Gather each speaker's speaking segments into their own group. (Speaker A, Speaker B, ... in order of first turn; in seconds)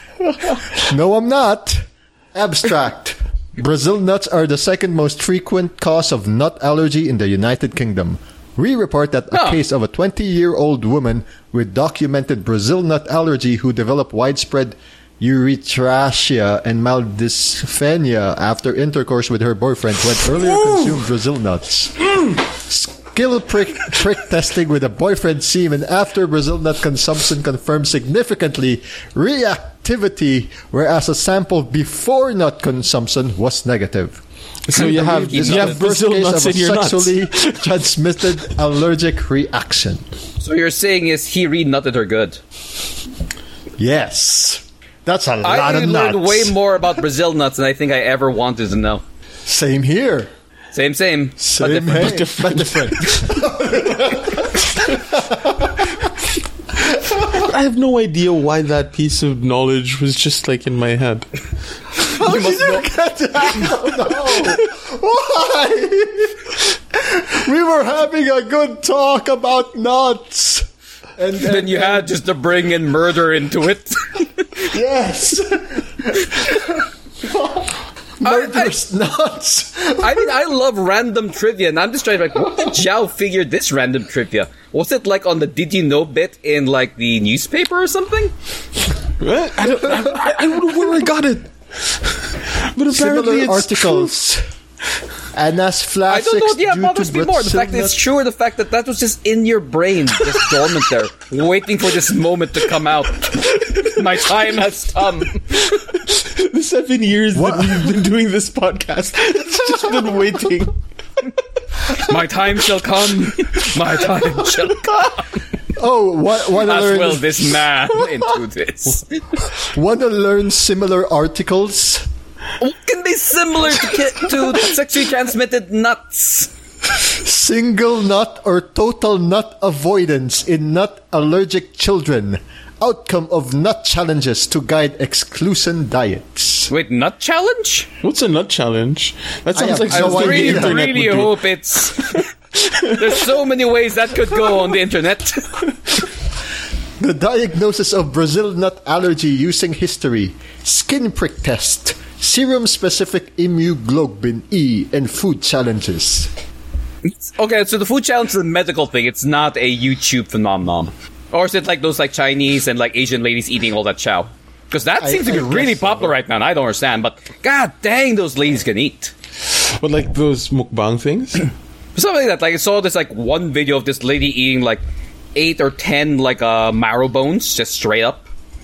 Speaker A: 0.5-34.2, 34.8-40.0, 43.8-46.5, 49.5-50.3, 51.4-56.1, 62.0-70.7, 71.2-72.1, 74.6-80.3, 92.9-94.4, 95.3-98.0, 107.3-108.0, 115.8-117.7, 119.5-122.1, 127.0-136.7, 139.5-140.8, 147.0-156.3, 165.0-166.1
Speaker B: 9.3-9.6, 34.7-35.8, 40.4-42.4, 45.4-49.0, 50.7-52.2, 62.2-62.8, 71.4-74.6, 78.2-78.7, 80.0-88.3, 96.1-105.7, 111.9-115.4, 116.6-119.2, 122.6-126.5, 136.7-137.9, 139.9-142.3, 142.8-145.6, 157.1-169.1, 171.9-174.8, 175.3-178.2
Speaker C: 34.7-37.8, 51.7-53.3, 57.3-61.3, 89.2-94.2, 105.7-110.8, 138.0-141.5, 142.1-143.2, 169.4-171.5